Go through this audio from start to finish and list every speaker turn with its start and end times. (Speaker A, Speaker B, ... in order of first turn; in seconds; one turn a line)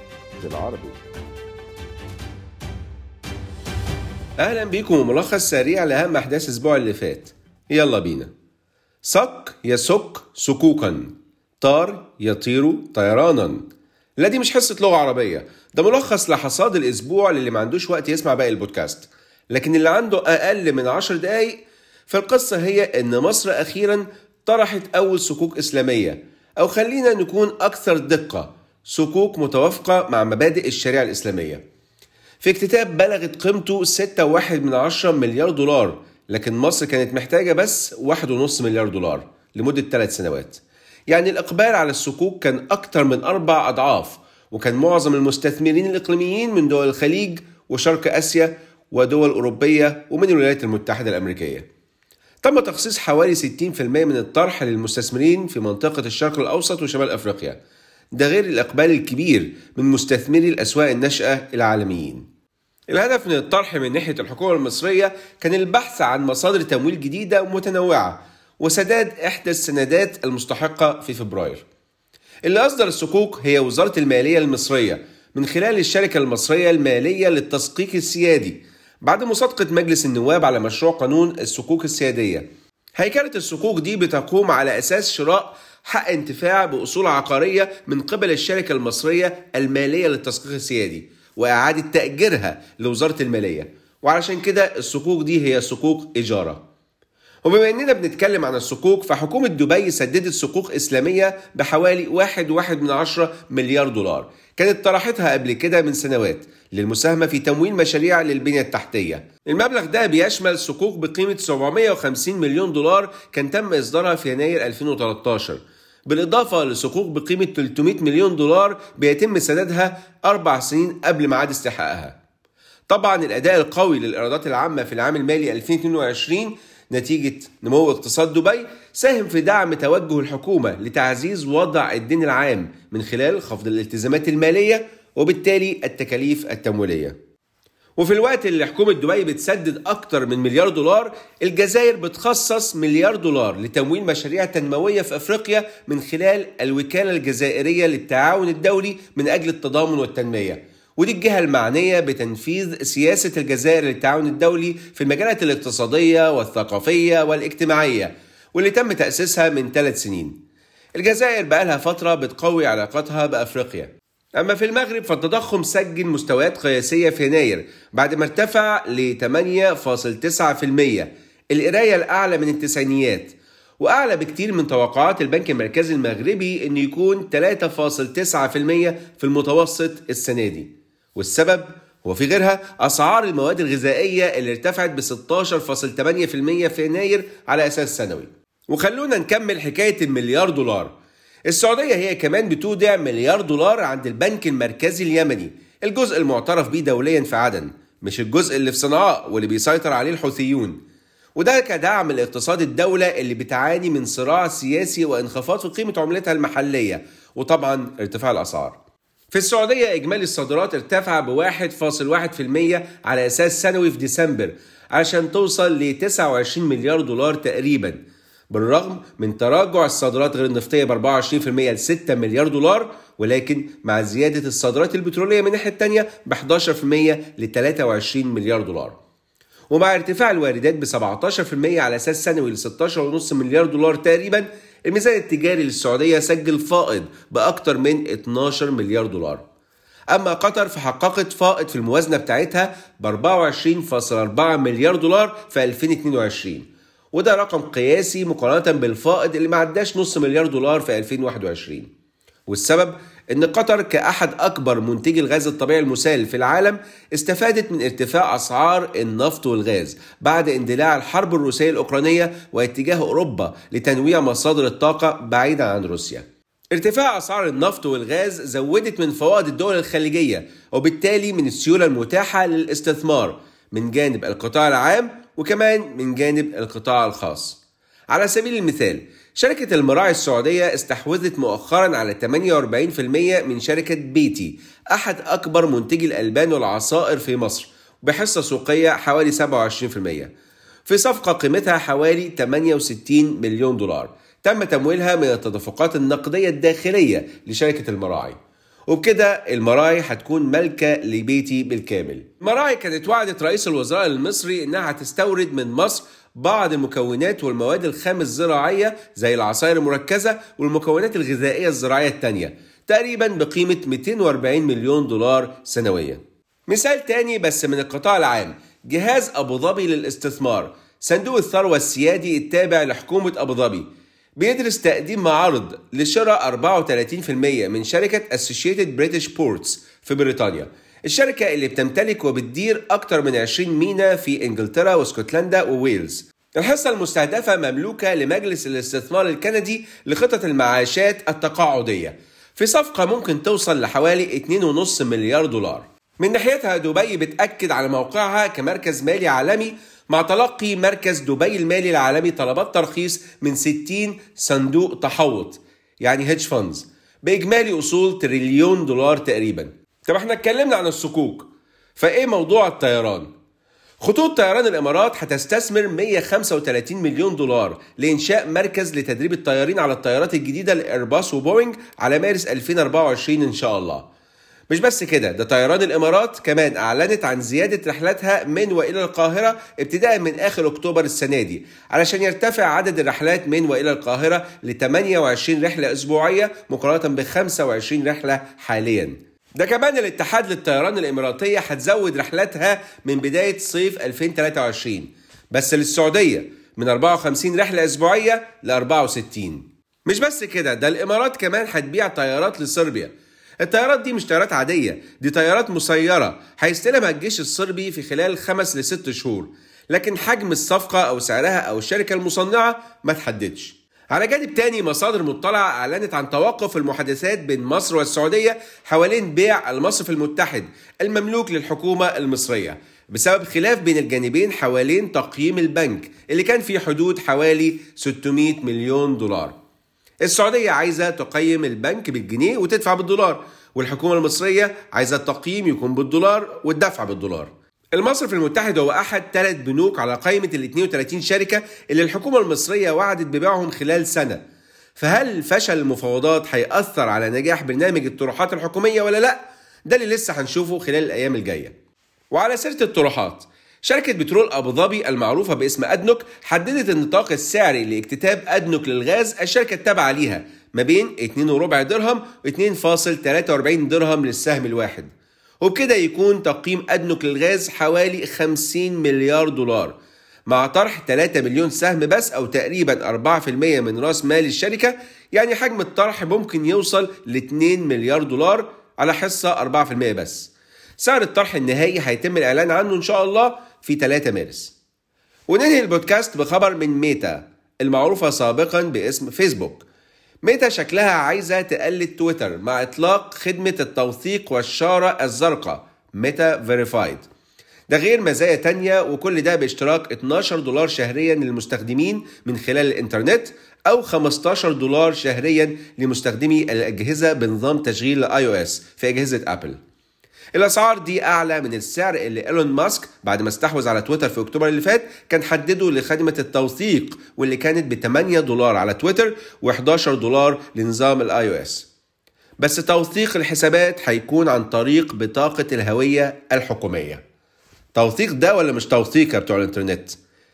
Speaker A: 0.4-1.0
Speaker A: 4.4-8.3
Speaker A: 9.0-13.6
Speaker A: 14.2-21.6
Speaker A: 22.1-31.6
Speaker A: 32.4-51.7
Speaker A: 52.4-57.6
Speaker A: 58.2-62.2
Speaker A: 62.9-71.6
Speaker A: 72.5-82.5
Speaker A: 83.0-96.6
Speaker A: 97.5-122.2
Speaker A: 122.9-137.2
Speaker A: 138.0-160.3
Speaker A: 161.0-190.9
Speaker A: 191.5-200.8
Speaker A: 201.3-208.8
Speaker A: 209.3-218.0
Speaker A: 218.5-228.9
Speaker A: 229.7-239.4
Speaker A: 240.1-251.9
Speaker A: 252.5-290.3
Speaker A: 290.9-298.4
Speaker A: 298.9-323.9
Speaker A: 324.4-363.3
Speaker A: 364.0-374.1
Speaker A: 374.7-429.6
Speaker A: 430.2-444.4
Speaker A: 445.0-451.7
Speaker A: 452.3-465.1
Speaker A: 465.6-470.0
Speaker A: 470.5-484.8
Speaker A: 485.5-489.9
Speaker A: 490.4-497.2
Speaker A: 497.9-509.8
Speaker A: 510.6-521.9
Speaker A: 522.6-527.2
Speaker A: 527.9-530.2